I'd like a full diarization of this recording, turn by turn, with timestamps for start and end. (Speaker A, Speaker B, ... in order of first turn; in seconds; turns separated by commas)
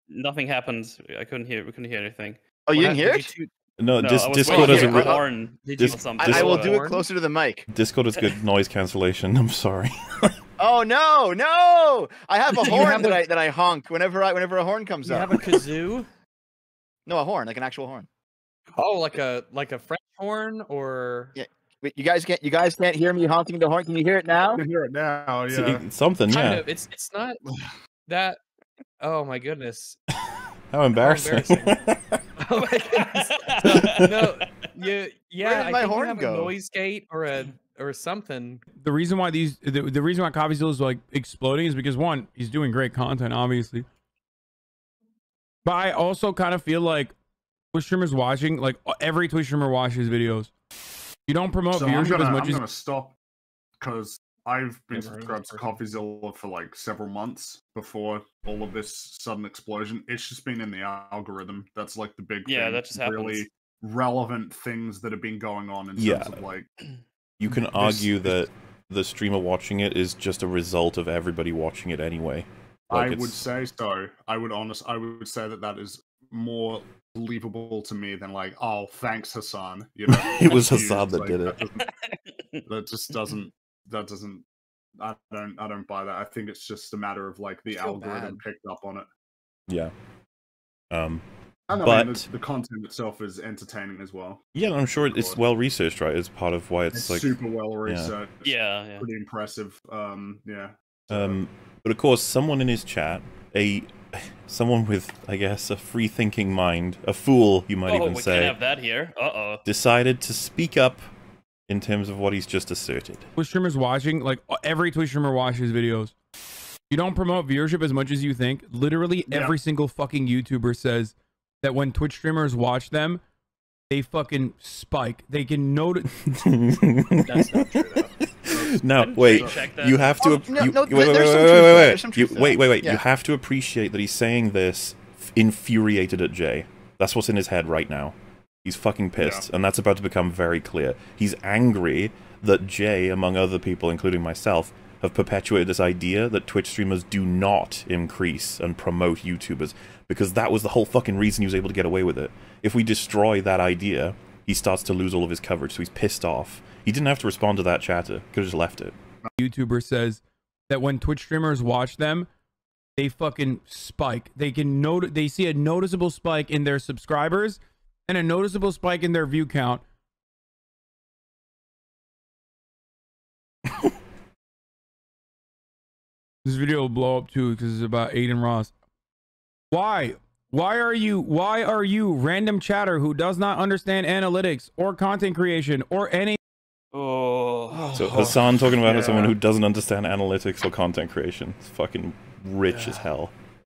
Speaker A: 0.1-2.4, Speaker B: 2.7-3.3, Speaker C: 2.7-3.5, Speaker D: 3.8-5.2, Speaker A: 4.0-6.9, Speaker C: 4.5-7.1, Speaker B: 4.8-5.2, Speaker B: 6.2-7.7, Speaker D: 7.7-10.3, Speaker B: 10.6-15.4, Speaker C: 12.6-13.2, Speaker C: 15.1-16.1, Speaker B: 17.1-18.1, Speaker C: 18.8-21.4, Speaker B: 21.4-24.6, Speaker E: 24.6-25.8, Speaker D: 25.5-26.6, Speaker C: 26.3-27.4, Speaker C: 28.1-28.4, Speaker C: 29.0-30.0, Speaker D: 30.7-32.2, Speaker C: 31.0-31.8, Speaker C: 32.4-38.6, Speaker D: 33.7-34.1, Speaker B: 35.4-36.5, Speaker F: 38.8-43.9, Speaker F: 45.6-47.1, Speaker F: 47.7-50.5, Speaker F: 51.3-52.6, Speaker E: 51.7-53.1, Speaker E: 53.8-66.7, Speaker C: 54.9-55.9, Speaker A: 62.5-63.5, Speaker D: 66.0-66.4, Speaker D: 67.4-73.4, Speaker E: 67.8-68.2, Speaker E: 72.9-81.8, Speaker D: 80.1-81.6, Speaker A: 81.8-83.2, Speaker E: 82.7-84.4, Speaker E: 85.0-89.1, Speaker C: 87.7-88.4, Speaker D: 90.9-92.3, Speaker E: 91.7-94.4, Speaker D: 94.5-98.1, Speaker E: 95.1-95.4, Speaker E: 96.9-101.4, Speaker A: 98.4-99.1, Speaker D: 101.1-108.6, Speaker A: 107.9-109.6, Speaker D: 109.6-111.1, Speaker D: 111.7-113.3, Speaker F: 113.4-116.1, Speaker F: 116.9-123.2, Speaker E: 119.3-119.6, Speaker F: 123.9-126.1, Speaker D: 126.3-127.8, Speaker C: 127.3-128.1, Speaker D: 128.4-159.0, Speaker E: 128.5-129.7, Speaker A: 128.9-130.5, Speaker B: 130.3-133.0, Speaker E: 139.2-139.5, Speaker F: 159.4-162.3, Speaker F: 163.0-169.8, Speaker F: 176.4-178.7, Speaker F: 179.7-186.4, Speaker A: 186.9-187.9, Speaker E: 187.7-189.3, Speaker D: 187.9-193.3, Speaker E: 192.7-193.0